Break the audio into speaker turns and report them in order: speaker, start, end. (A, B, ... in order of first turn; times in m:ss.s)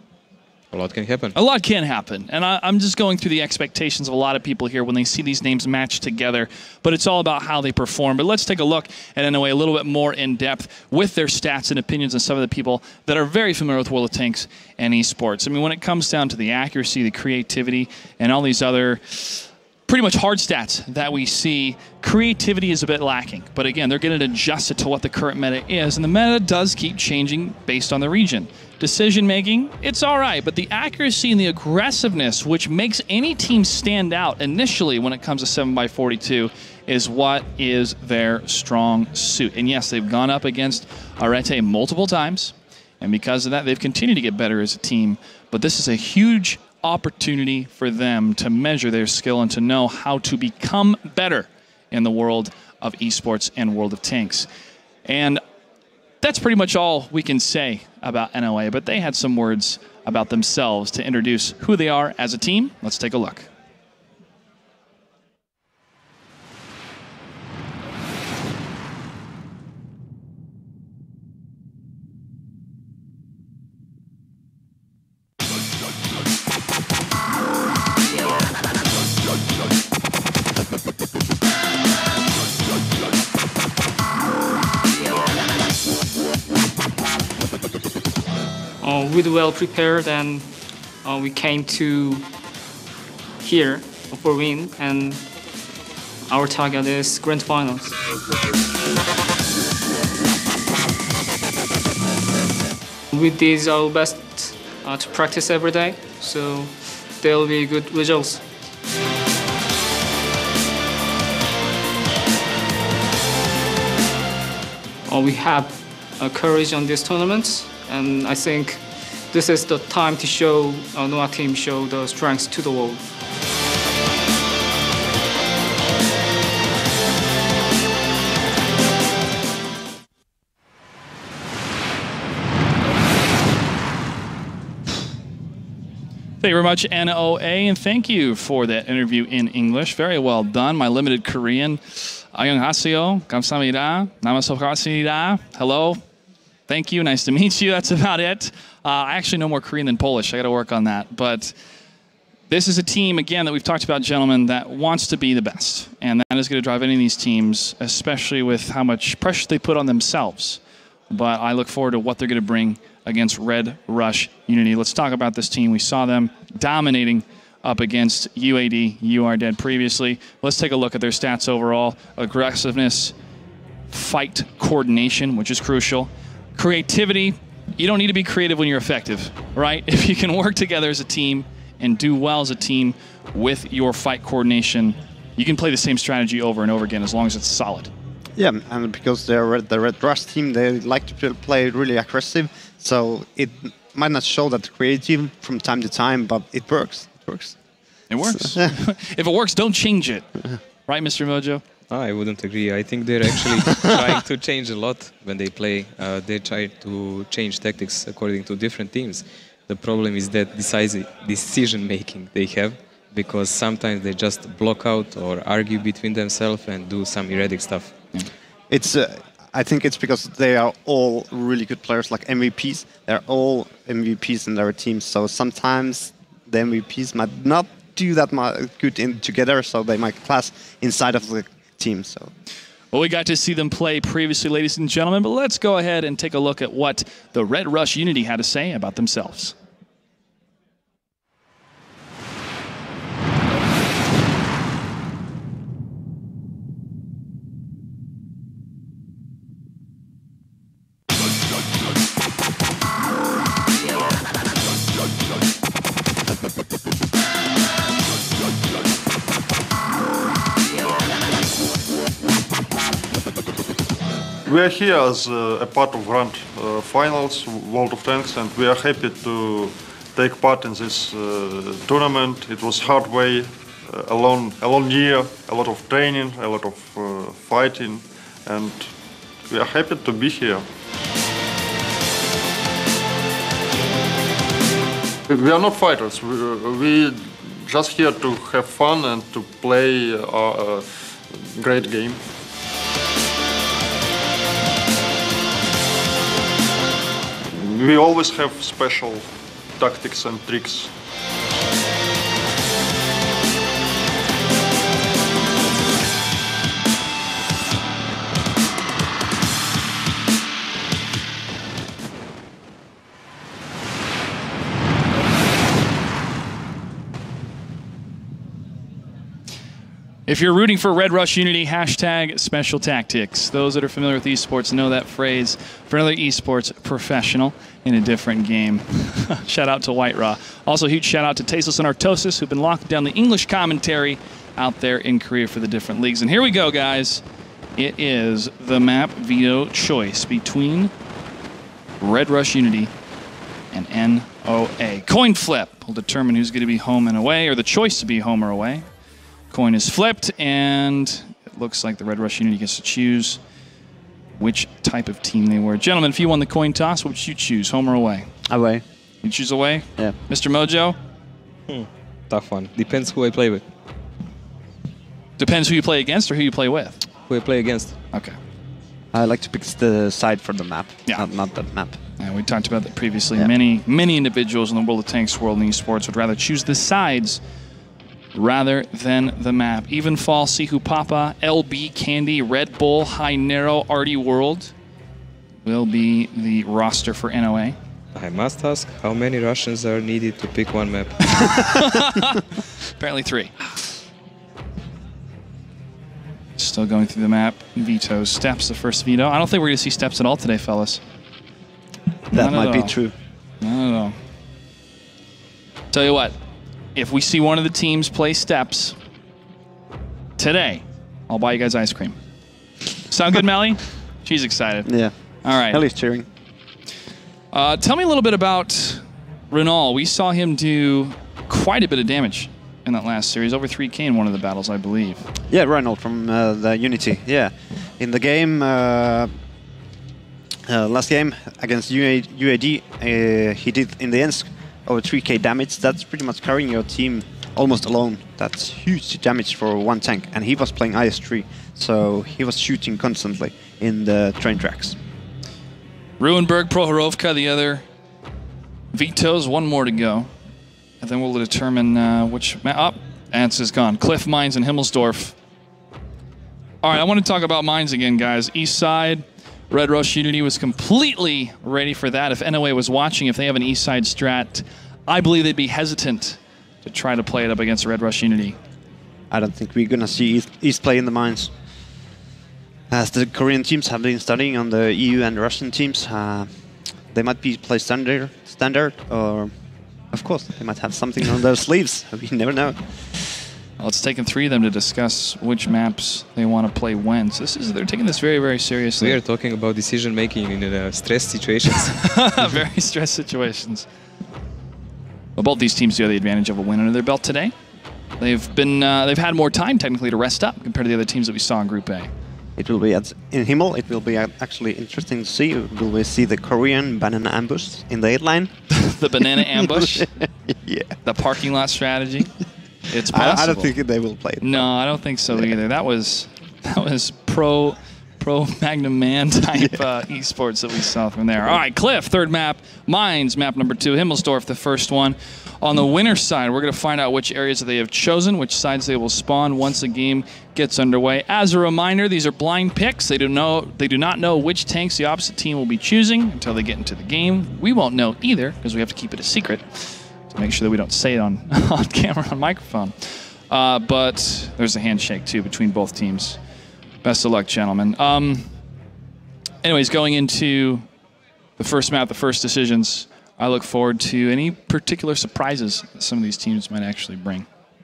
0:00.7-0:01.4 A
0:01.4-0:54.5 B
0:55.0-0:55.4 B
0:56.2-1:03.5 B
1:28.8-1:32.3 C
1:33.4-1:35.3 C
1:36.3-1:38.0 C
1:43.1-1:48.4 C
1:55.1-2:03.1 C
2:16.4-2:26.0 B
2:26.7-2:31.6 B
2:32.5-2:40.6 B
2:41.1-2:53.2 B
2:53.9-3:07.9 B
3:08.4-3:17.6 D
3:18.1-3:20.3 B
3:18.3-3:18.7 D
3:20.9-3:21.6 B
3:21.9-3:38.0 A
3:38.7-3:52.3 D
3:52.9-3:59.6 B
4:24.4-4:38.9 E
4:39.4-4:40.7 E
4:45.3-4:52.2 E
4:57.5-5:00.9 E
5:20.3-5:37.2 B
5:37.8-5:40.9 B
5:42.0-5:42.9 B
5:43.7-5:48.9 B
5:49.5-5:53.4 B
5:54.4-5:58.3 B
5:58.5-5:58.8 D
5:59.2-6:01.0 B
6:01.7-6:03.6 A
6:05.4-6:07.0 B
6:07.3-6:08.0 A
6:09.1-6:12.0 D
6:12.2-6:17.4 B
6:18.3-6:24.7 B
6:25.6-6:27.8 B
6:28.1-6:31.6 A
6:31.4-6:32.4 B
6:33.0-6:33.6 B
6:36.6-6:41.0 B
6:42.3-6:43.0 B
6:42.3-6:43.1 D
6:43.6-6:44.2 B
6:45.9-6:46.4 B
6:47.0-6:49.0 B
6:50.4-6:52.2 B
6:53.1-6:54.9 B
6:54.8-6:56.3 D
6:55.4-6:55.8 B
6:57.5-7:05.2 B
7:05.5-7:09.3 D
7:10.7-7:25.0 D
7:26.2-7:27.8 B
7:28.9-7:30.3 B
7:31.0-7:35.4 B
7:36.8-7:48.6 B
7:49.3-7:51.5 D
7:52.9-7:56.5 D
7:57.1-7:59.5 D
8:00.1-8:02.8 D
8:03.8-8:09.2 B
8:09.0-8:12.0 A
8:11.9-8:13.9 B
8:15.4-8:17.5 B
8:18.2-8:22.1 B
8:22.6-8:28.5 D
8:28.7-8:30.1 B
8:29.5-8:31.0 D
8:31.0-8:32.3 B
8:32.9-8:33.7 B
8:33.0-8:34.7 D
8:34.4-9:06.4 B
9:07.0-9:08.5 B
9:09.6-9:10.8 B
9:11.6-9:17.5 B